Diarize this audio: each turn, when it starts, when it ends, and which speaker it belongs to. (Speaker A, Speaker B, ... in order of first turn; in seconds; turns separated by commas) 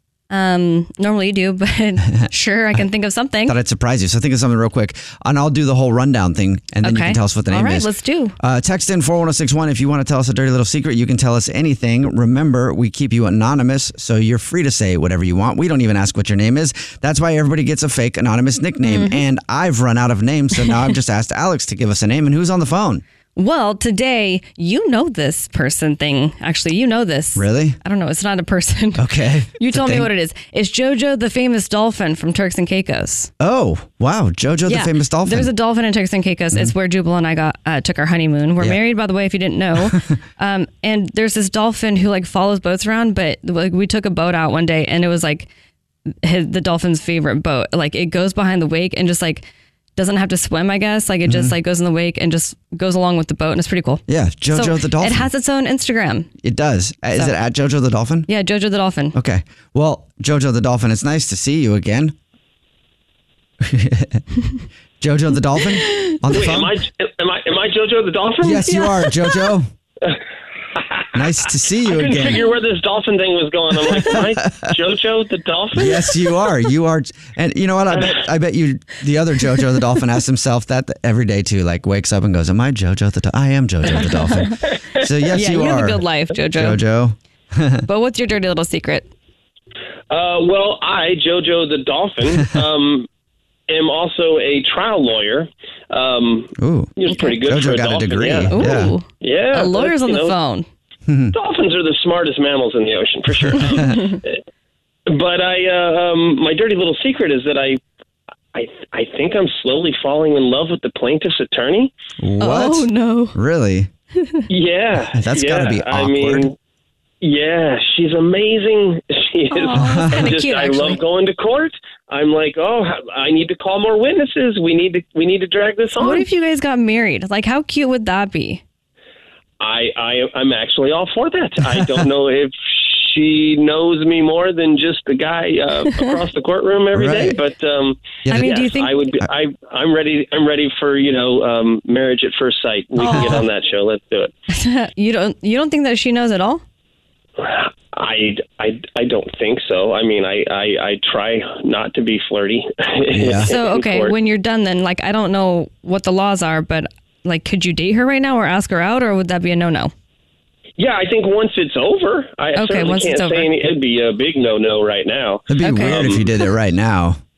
Speaker A: 0.3-3.6, Speaker B: 3.5-23.0, Speaker A: 6.8-8.4, Speaker A: 18.8-19.2, Speaker A: 23.4-33.3, Speaker B: 27.4-27.8, Speaker B: 29.0-30.1, Speaker B: 33.4-35.5, Speaker A: 34.6-45.5, Speaker A: 46.2-56.3, Speaker B: 51.2-51.6, Speaker B: 54.1-55.3, Speaker B: 56.4-58.3, Speaker A: 58.3-59.2, Speaker B: 59.1-62.1, Speaker B: 63.6-64.2, Speaker B: 65.0-66.8, Speaker A: 65.8-66.1, Speaker C: 66.3-68.7, Speaker B: 68.4-69.7, Speaker A: 68.6-69.6, Speaker C: 70.7-71.2, Speaker B: 71.1-72.5, Speaker C: 71.8-76.2, Speaker B: 73.8-74.7, Speaker B: 75.7-87.8, Speaker C: 84.7-85.0, Speaker A: 85.3-86.8, Speaker A: 87.9-89.1, Speaker C: 90.1-93.1, Speaker C: 93.7-100.4, Speaker B: 96.6-99.0, Speaker A: 97.1-97.4, Speaker A: 98.5-100.7, Speaker B: 101.1-101.3, Speaker C: 101.3-104.4, Speaker B: 103.5-103.8, Speaker C: 105.1-107.8, Speaker C: 108.5-111.9, Speaker B: 112.2-113.9, Speaker A: 112.4-113.4, Speaker C: 114.5-116.5, Speaker B: 115.1-116.5, Speaker C: 117.2-126.3, Speaker A: 119.5-121.0, Speaker B: 119.7-120.3, Speaker A: 126.0-128.6, Speaker C: 129.6-144.3, Speaker B: 136.9-137.4, Speaker B: 138.2-138.6, Speaker A: 138.3-138.9, Speaker A: 143.0-143.4, Speaker B: 143.1-143.4, Speaker A: 144.5-146.6, Speaker C: 147.4-154.2, Speaker B: 153.1-153.5, Speaker A: 153.4-159.9, Speaker C: 160.8-166.2, Speaker A: 162.6-163.5, Speaker B: 165.5-167.2, Speaker A: 165.6-166.2